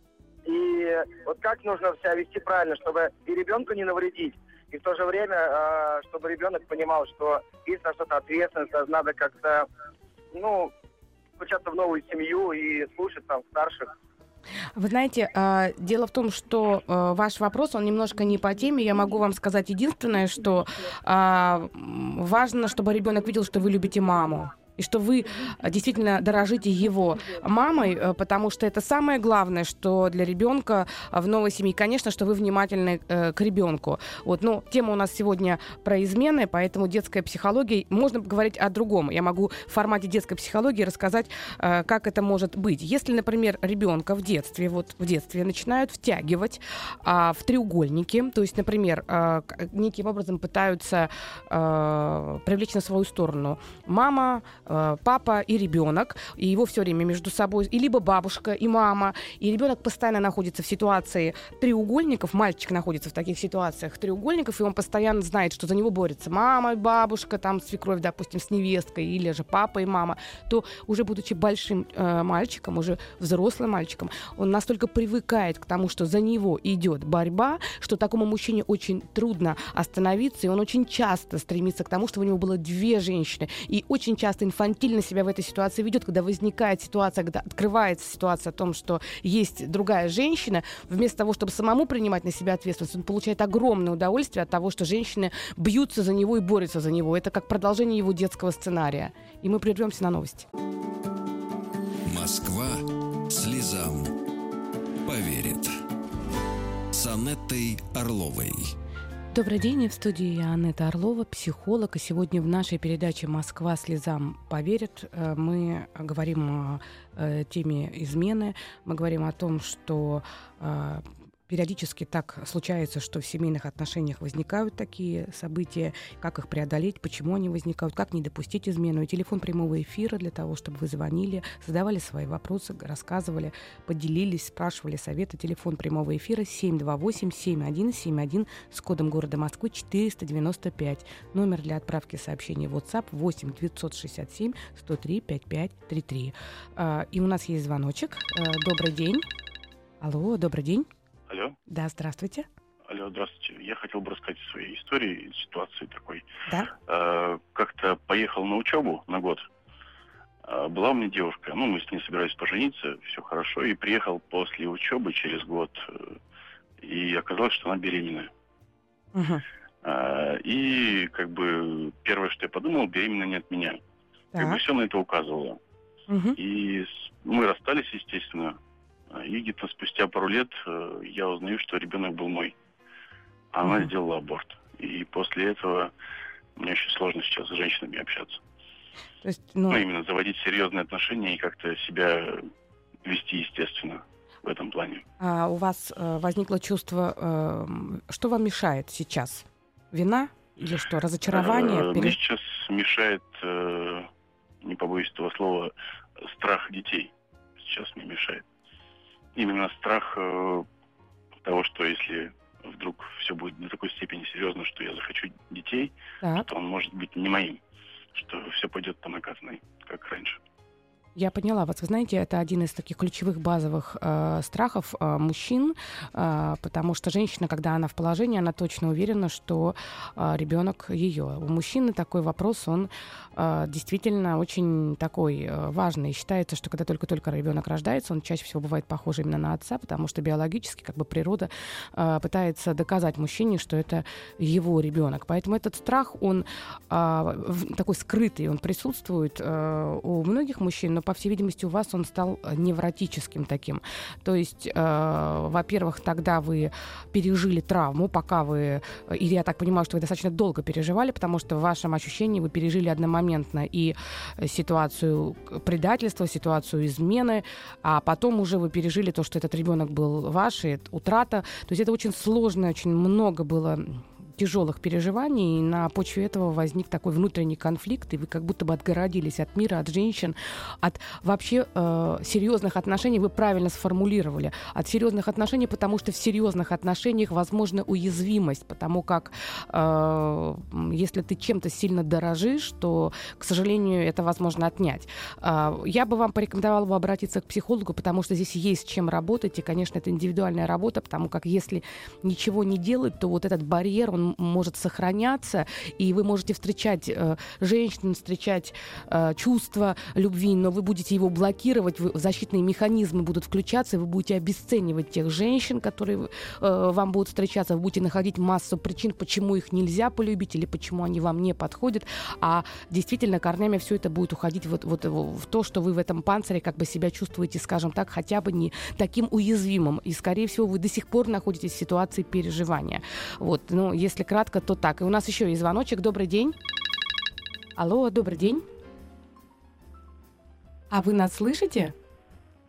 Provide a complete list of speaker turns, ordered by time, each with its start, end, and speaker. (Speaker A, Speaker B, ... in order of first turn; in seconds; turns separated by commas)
Speaker A: 0.5-9.7, Speaker A: 10.3-10.7, Speaker A: 11.4-13.9, Speaker B: 14.8-100.5, Speaker C: 102.1-104.1, Speaker C: 105.0-105.7, Speaker C: 106.9-108.7, Speaker B: 109.3-149.3, Speaker B: 150.0-150.9, Speaker D: 151.3-151.6, Speaker B: 151.7-152.5, Speaker D: 152.9-156.2, Speaker D: 156.9-159.4, Speaker D: 160.4-166.2, Speaker D: 166.8-168.3, Speaker B: 169.1-169.4, Speaker D: 169.8-173.8, Speaker B: 174.3-174.6, Speaker D: 174.3-175.6, Speaker B: 176.1-176.4, Speaker D: 176.4-178.6, Speaker D: 179.1-182.6, Speaker D: 183.5-185.9, Speaker B: 183.7-183.9, Speaker D: 186.6-188.4, Speaker B: 189.2-189.8, Speaker D: 189.7-192.5, Speaker D: 193.1-195.0, Speaker B: 195.2-202.2, Speaker D: 201.3-204.1, Speaker D: 204.6-208.4, Speaker D: 209.4-210.7, Speaker D: 211.4-217.6, Speaker B: 216.2-216.5, Speaker D: 218.1-220.4, Speaker B: 221.2-336.6, Speaker B: 337.8-338.6, Speaker B: 340.9-341.9